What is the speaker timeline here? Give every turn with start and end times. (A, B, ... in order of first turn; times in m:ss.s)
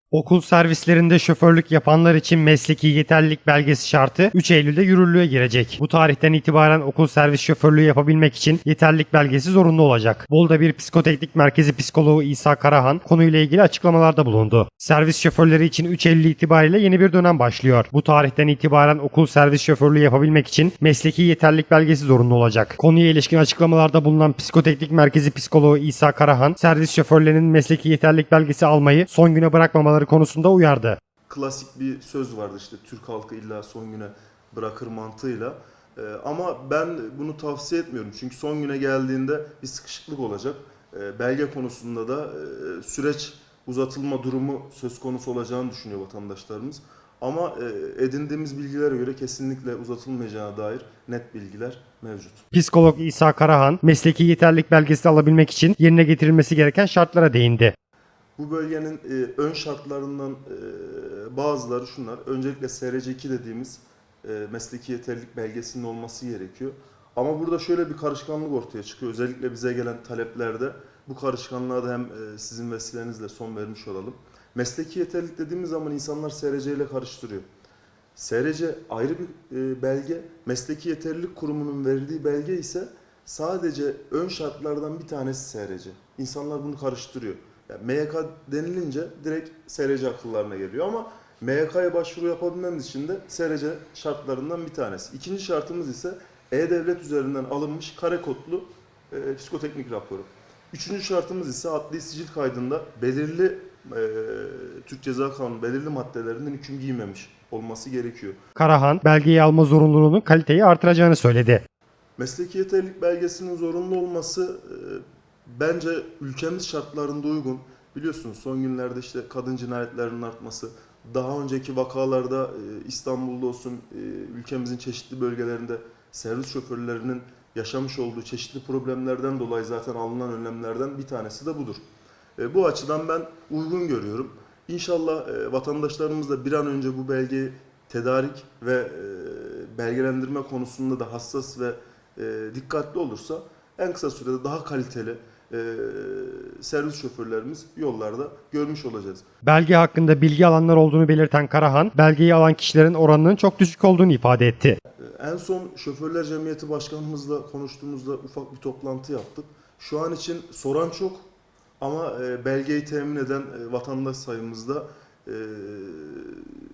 0:00.1-0:31.0 A
0:31.4-0:35.5 B
0:36.0-0:52.3 B
0:52.5-0:57.7 A
0:58.4-1:03.8 B
1:04.3-1:17.4 B
1:18.2-1:40.3 B
1:40.8-1:48.3 B
1:48.6-1:51.6 A
1:52.2-1:55.0 B
1:55.6-2:11.8 B
2:12.4-2:29.2 B
2:29.4-2:34.8 A
2:35.2-2:41.2 B
2:41.8-2:46.4 B